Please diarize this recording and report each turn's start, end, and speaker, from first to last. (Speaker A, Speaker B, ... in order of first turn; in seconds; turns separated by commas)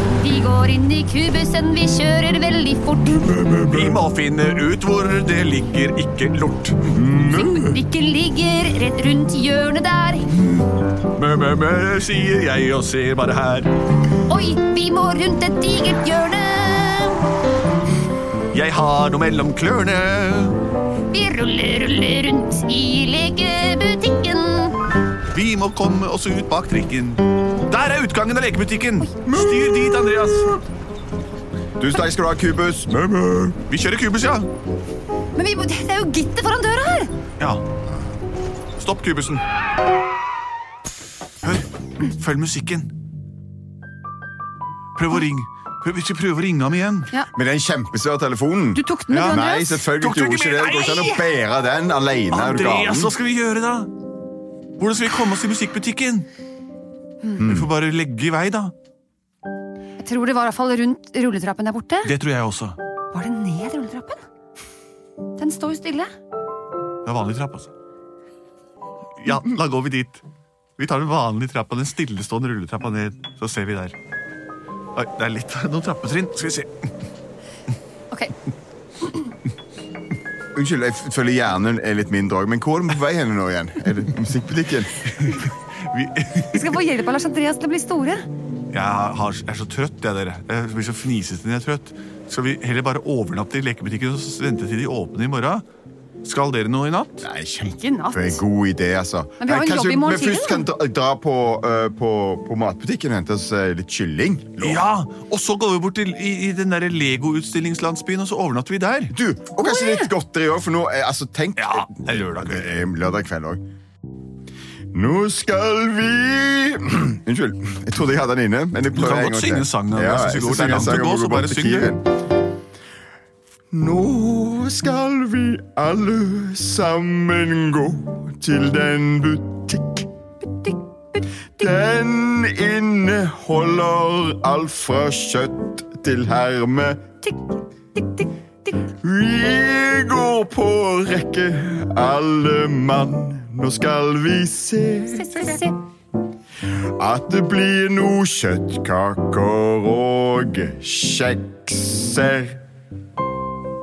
Speaker A: 0.2-3.4, Speaker B: 3.4-3.9, Speaker C: 3.6-7.0, Speaker B: 6.9-7.7, Speaker A: 7.2-10.3, Speaker C: 11.1-13.7, Speaker A: 14.3-17.2, Speaker C: 18.5-20.6, Speaker A: 21.1-24.8, Speaker C: 25.3-30.5, Speaker B: 29.4-29.7, Speaker B: 31.8-33.6, Speaker C: 33.7-34.5, Speaker A: 35.4-37.1, Speaker C: 37.4-37.6, Speaker C: 38.8-39.4, Speaker C: 41.4-42.9, Speaker C: 44.9-47.1, Speaker B: 47.3-53.1, Speaker A: 48.7-49.8, Speaker C: 49.1-51.3, Speaker C: 52.3-53.9, Speaker C: 54.8-56.3, Speaker B: 57.4-57.7, Speaker C: 57.4-58.7, Speaker A: 60.0-62.1, Speaker C: 62.0-62.8, Speaker A: 63.1-64.2, Speaker A: 65.4-66.1, Speaker C: 67.0-67.7, Speaker C: 69.2-70.2, Speaker C: 70.8-74.0, Speaker C: 74.9-76.8, Speaker B: 80.5-85.1, Speaker C: 85.1-86.8, Speaker A: 86.5-88.3, Speaker C: 88.7-95.7, Speaker C: 96.2-97.3, Speaker B: 97.2-104.9, Speaker A: 97.6-98.4, Speaker A: 99.4-100.7, Speaker C: 104.6-109.1, Speaker B: 109.1-113.6, Speaker A: 109.6-110.1, Speaker C: 111.6-112.8, Speaker B: 114.9-122.0, Speaker C: 118.9-121.9, Speaker B: 123.7-130.1, Speaker A: 130.4-131.3, Speaker B: 131.6-137.1, Speaker A: 137.2-138.8, Speaker B: 139.0-145.6, Speaker A: 145.1-145.8, Speaker B: 147.0-152.6